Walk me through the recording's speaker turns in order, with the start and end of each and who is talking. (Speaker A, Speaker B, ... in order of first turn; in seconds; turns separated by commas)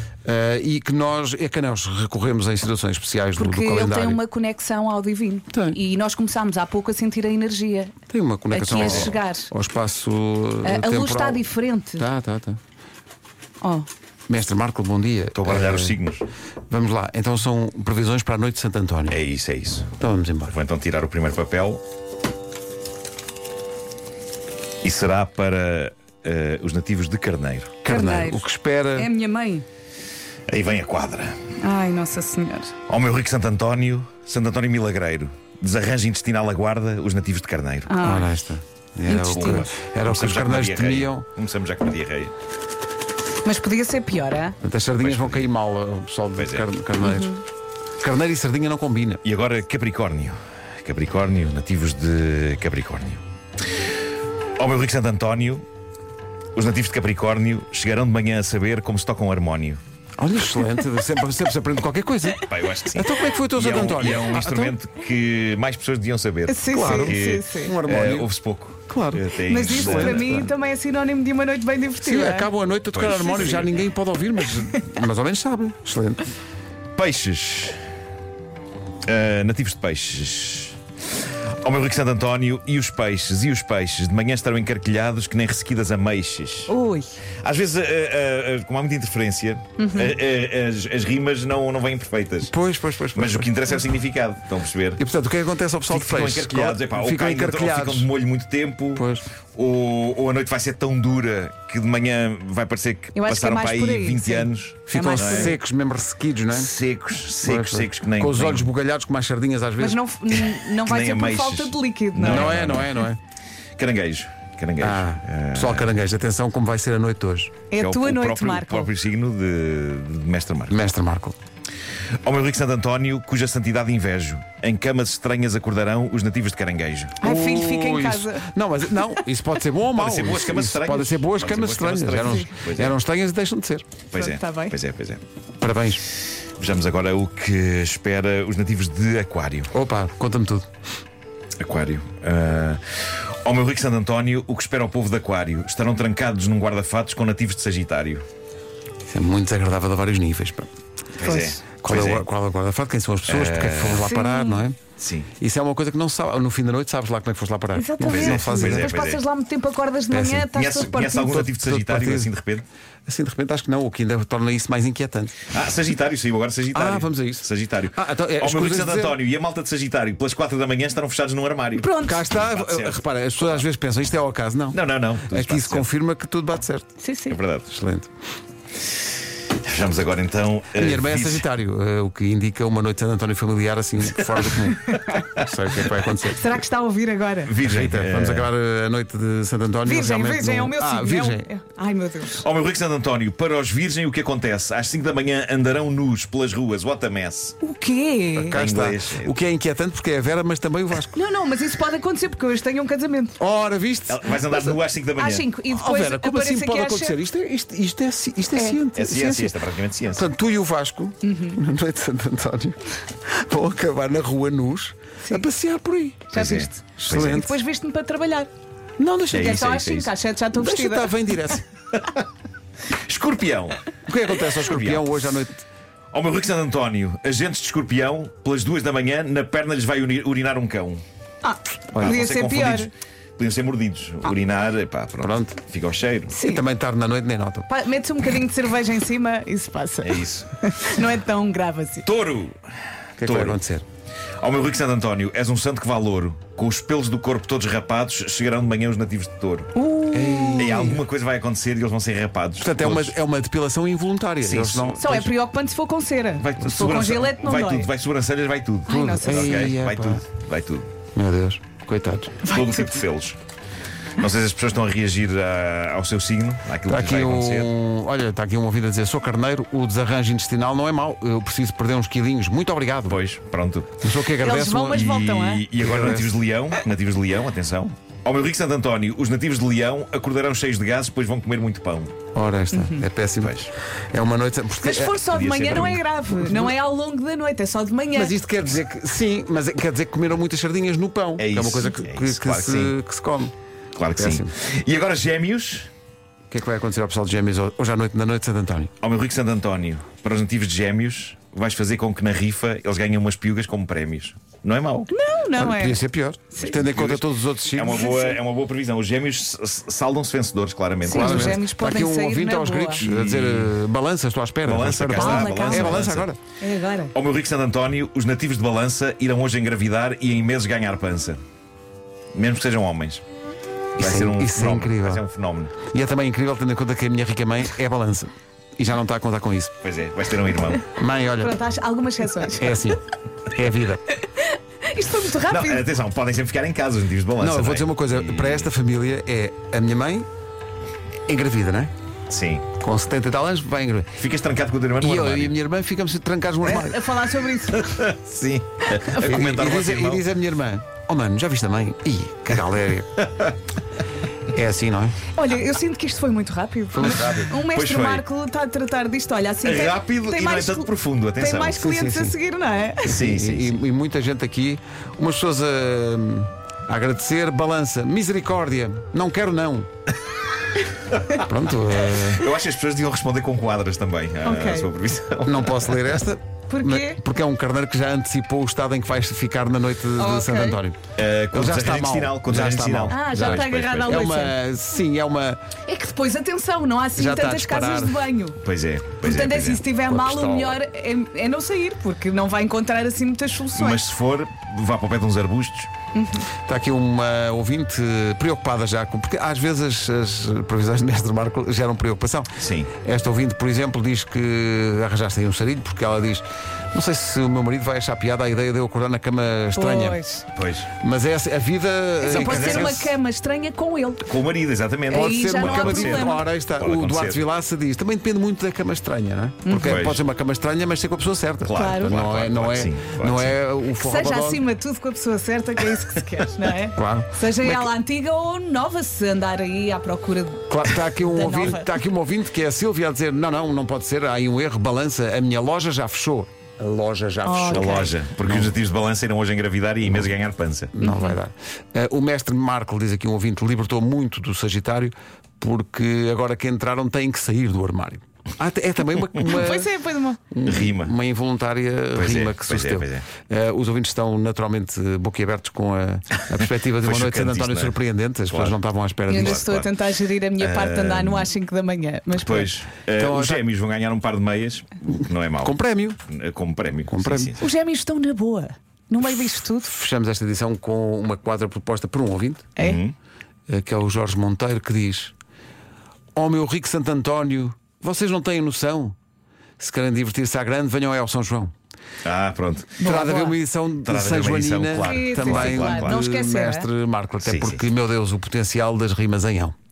Speaker A: 0.2-4.2, Speaker B: 3.4-8.0, Speaker A: 5.5-5.8, Speaker A: 8.1-11.4, Speaker B: 8.5-9.5, Speaker C: 8.7-9.2, Speaker B: 10.6-12.0, Speaker A: 12.0-12.6, Speaker B: 13.6-13.9, Speaker A: 14.3-16.0, Speaker C: 15.3-16.3, Speaker A: 16.7-19.2, Speaker C: 19.1-19.9, Speaker A: 20.0-20.5, Speaker C: 20.5-21.8, Speaker C: 24.8-27.8, Speaker A: 27.8-29.1, Speaker B: 27.9-29.6, Speaker C: 30.5-31.4, Speaker B: 31.6-32.7, Speaker C: 32.9-37.9, Speaker B: 37.9-38.3, Speaker A: 38.0-41.2, Speaker B: 39.1-39.7, Speaker C: 39.3-42.3, Speaker B: 43.4-44.5, Speaker A: 44.6-47.4, Speaker C: 45.0-45.5, Speaker C: 46.4-46.6, Speaker B: 47.0-47.4, Speaker A: 48.0-49.2, Speaker C: 49.2-53.2, Speaker C: 54.6-55.6, Speaker C: 56.5-59.8, Speaker A: 60.2-64.7, Speaker C: 62.4-70.5, Speaker B: 66.5-67.8, Speaker A: 66.7-68.3, Speaker A: 68.9-70.5, Speaker B: 69.4-72.5, Speaker A: 72.0-76.3, Speaker C: 72.9-73.8, Speaker B: 74.6-74.9, Speaker C: 77.0-77.8, Speaker C: 79.0-86.7, Speaker B: 86.7-87.2, Speaker C: 87.4-92.5, Speaker B: 89.8-90.2, Speaker A: 92.5-93.5, Speaker C: 93.1-95.0, Speaker A: 95.0-98.1, Speaker C: 95.9-105.6, Speaker A: 98.9-99.3, Speaker B: 103.1-105.6, Speaker A: 104.9-106.7, Speaker C: 106.5-108.7, Speaker A: 107.4-110.0, Speaker B: 109.8-112.7, Speaker C: 110.3-113.0, Speaker A: 112.2-113.2, Speaker C: 113.8-116.0, Speaker A: 114.8-117.6, Speaker B: 117.7-118.9, Speaker C: 117.8-120.8, Speaker A: 120.7-121.3, Speaker C: 122.2-127.2, Speaker B: 127.2-128.5, Speaker A: 127.2-133.9, Speaker C: 129.9-132.9, Speaker B: 132.2-132.5, Speaker B: 134.1-134.8, Speaker C: 134.1-135.2, Speaker A: 135.6-136.0, Speaker C: 136.6-139.7, Speaker A: 139.7-140.7, Speaker C: 141.6-148.2, Speaker A: 149.0-150.7, Speaker C: 151.2-152.2, Speaker B: 151.2-151.6, Speaker A: 151.8-154.8, Speaker C: 153.3-154.1, Speaker B: 154.0-154.7, Speaker C: 155.0-155.3, Speaker A: 155.4-158.9, Speaker B: 157.7-161.4, Speaker C: 158.1-159.2, Speaker A: 160.1-160.5, Speaker C: 160.5-162.7, Speaker A: 161.2-162.3, Speaker A: 163.1-165.4, Speaker C: 165.5-173.6, Speaker A: 166.7-169.2, Speaker B: 171.8-172.2, Speaker A: 172.0-176.9, Speaker C: 174.7-175.9, Speaker B: 177.0-177.4, Speaker C: 177.3-177.7, Speaker A: 177.7-178.1, Speaker C: 179.6-181.5, Speaker A: 180.8-186.6, Speaker C: 184.3-185.4, Speaker B: 186.3-187.5, Speaker C: 187.4-188.5, Speaker A: 187.6-191.4, Speaker B: 189.8-192.4, Speaker C: 192.3-197.6, Speaker B: 197.6-198.6, Speaker C: 198.4-199.4, Speaker A: 198.4-201.2, Speaker B: 201.1-203.4, Speaker A: 203.4-204.8, Speaker C: 204.1-205.5, Speaker B: 205.2-207.2, Speaker A: 205.7-209.6, Speaker B: 208.5-208.8, Speaker C: 208.9-210.3, Speaker A: 210.1-216.3, Speaker B: 211.2-211.6, Speaker B: 216.3-218.5, Speaker C: 216.3-217.4, Speaker A: 217.0-217.6, Speaker A: 219.0-219.6, Speaker C: 219.3-220.1, Speaker B: 219.3-221.2, Speaker A: 220.5-221.6, Speaker C: 221.9-222.2, Speaker C: 222.9-223.8, Speaker A: 224.1-225.6, Speaker C: 224.4-225.4, Speaker C: 226.1-231.0, Speaker B: 231.4-232.9, Speaker C: 232.0-236.3, Speaker A: 235.2-235.6, Speaker B: 236.3-236.6, Speaker A: 236.3-237.7, Speaker B: 237.7-242.1, Speaker C: 240.0-240.5, Speaker C: 242.0-242.6, Speaker A: 243.2-243.8, Speaker C: 243.2-243.6, Speaker C: 244.4-249.7, Speaker B: 249.7-250.8, Speaker A: 250.1-251.0, Speaker C: 250.6-253.2, Speaker A: 252.6-255.3, Speaker C: 254.4-255.2, Speaker B: 255.0-257.9, Speaker C: 256.4-260.9, Speaker B: 258.9-259.7, Speaker A: 258.9-260.2, Speaker A: 261.1-262.4, Speaker B: 262.4-263.0, Speaker C: 262.4-263.4, Speaker C: 264.2-267.7, Speaker A: 266.8-273.2, Speaker C: 273.1-274.0, Speaker A: 274.0-275.2, Speaker B: 274.4-275.7, Speaker C: 274.9-282.1, Speaker A: 275.8-276.4, Speaker A: 282.3-283.5, Speaker B: 282.7-283.0, Speaker C: 283.4-283.7, Speaker A: 284.1-285.2, Speaker B: 284.8-288.3, Speaker C: 285.3-286.0, Speaker A: 285.7-286.7, Speaker A: 288.1-293.5, Speaker C: 291.4-292.9, Speaker C: 293.9-295.9, Speaker A: 294.1-294.5, Speaker A: 296.5-298.9, Speaker C: 299.0-305.1, Speaker B: 305.1-306.8, Speaker A: 305.6-308.0, Speaker C: 306.6-311.6, Speaker B: 307.9-308.4, Speaker B: 311.0-313.0, Speaker A: 311.1-316.4, Speaker C: 313.0-313.8, Speaker C: 314.6-316.3, Speaker B: 315.1-317.1, Speaker C: 317.1-321.4, Speaker C: 322.3-323.2, Speaker A: 324.0-325.2, Speaker C: 324.0-325.7, Speaker A: 325.8-329.7, Speaker C: 329.8-330.8, Speaker A: 330.9-331.6, Speaker B: 331.4-332.9, Speaker A: 332.5-334.0, Speaker B: 334.1-335.8, Speaker C: 335.5-338.7, Speaker A: 337.4-340.3, Speaker A: 341.3-341.9, Speaker C: 342.3-342.7, Speaker A: 342.8-344.2, Speaker C: 344.1-345.5, Speaker A: 345.0-347.1, Speaker B: 346.6-348.0, Speaker C: 347.7-350.2, Speaker B: 349.1-349.4, Speaker A: 349.2-353.2, Speaker A: 354.5-355.2, Speaker B: 355.3-363.2, Speaker A: 356.9-357.5, Speaker C: 356.9-358.2, Speaker C: 359.6-361.8, Speaker A: 361.8-362.4, Speaker C: 363.0-363.8, Speaker A: 363.1-369.9, Speaker A: 371.3-372.5, Speaker C: 372.1-376.1, Speaker B: 374.4-374.9, Speaker A: 375.4-385.6, Speaker B: 376.7-377.2, Speaker B: 380.1-380.8, Speaker C: 381.1-384.4, Speaker B: 383.1-384.6, Speaker B: 385.9-388.6, Speaker A: 387.1-388.2, Speaker C: 388.6-389.8, Speaker B: 389.2-394.0, Speaker A: 390.1-390.8, Speaker C: 393.7-395.9, Speaker B: 396.1-396.5, Speaker A: 396.6-410.2, Speaker C: 402.6-402.9, Speaker B: 409.7-410.4, Speaker C: 410.5-410.9, Speaker A: 411.0-413.1, Speaker B: 412.2-414.2, Speaker C: 412.2-413.1, Speaker C: 414.2-417.5, Speaker B: 415.1-416.4, Speaker A: 415.1-424.6, Speaker B: 419.6-420.0, Speaker C: 419.8-420.2, Speaker C: 421.6-423.6, Speaker B: 421.7-422.2, Speaker B: 423.9-431.9, Speaker A: 426.9-427.9, Speaker A: 430.7-438.7, Speaker B: 437.4-438.1, Speaker C: 437.7-440.9, Speaker A: 440.9-449.9, Speaker B: 441.0-441.4, Speaker B: 449.4-450.4, Speaker A: 450.5-459.8, Speaker C: 450.6-451.1, Speaker C: 452.1-453.3, Speaker C: 456.5-460.0, Speaker B: 459.3-462.7, Speaker C: 460.6-461.5, Speaker C: 462.3-467.6, Speaker A: 463.1-463.6, Speaker A: 465.6-466.2, Speaker A: 467.1-467.6, Speaker B: 467.6-469.9, Speaker A: 469.8-472.7, Speaker B: 472.8-473.0, Speaker C: 472.8-473.1, Speaker A: 473.7-475.3, Speaker A: 476.4-479.1, Speaker A: 479.8-481.7, Speaker C: 482.2-483.0, Speaker B: 483.0-483.6, Speaker A: 483.0-489.8, Speaker C: 484.0-486.2, Speaker B: 485.0-486.9, Speaker C: 487.4-487.9